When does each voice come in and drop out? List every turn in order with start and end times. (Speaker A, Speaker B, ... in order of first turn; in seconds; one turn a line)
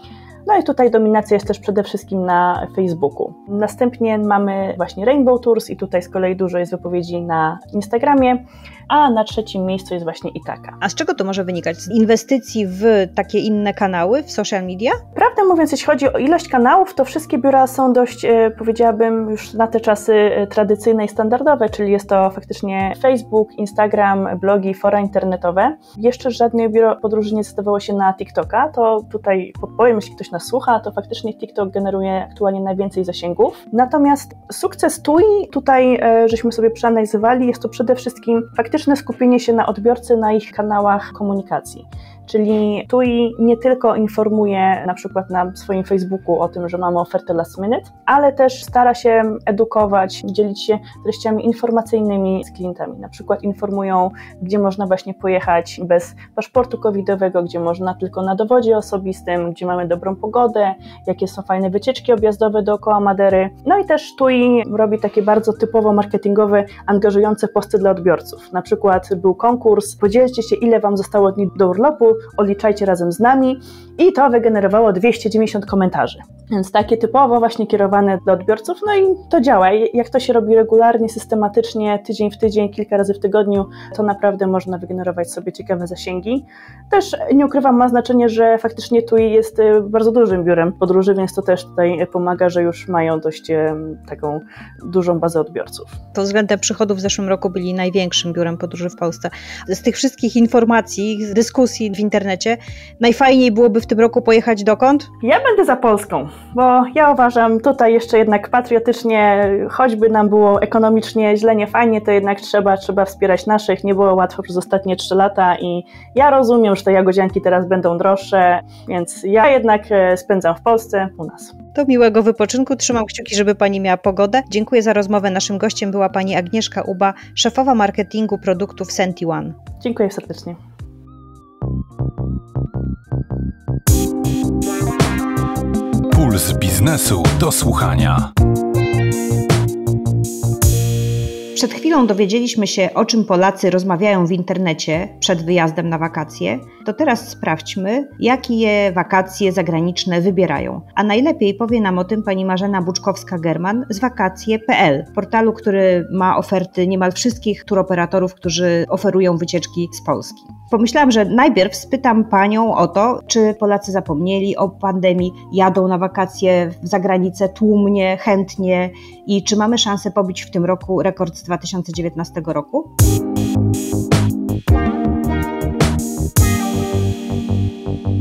Speaker A: 0.5-10.8
Speaker B: 10.8-15.0
Speaker A: 15.2-96.0
Speaker B: 96.2-105.1
Speaker A: 105.2-121.5
Speaker B: 121.8-129.6
Speaker A: 129.8-130.6
Speaker C: 136.1-138.3
Speaker B: 141.6-172.9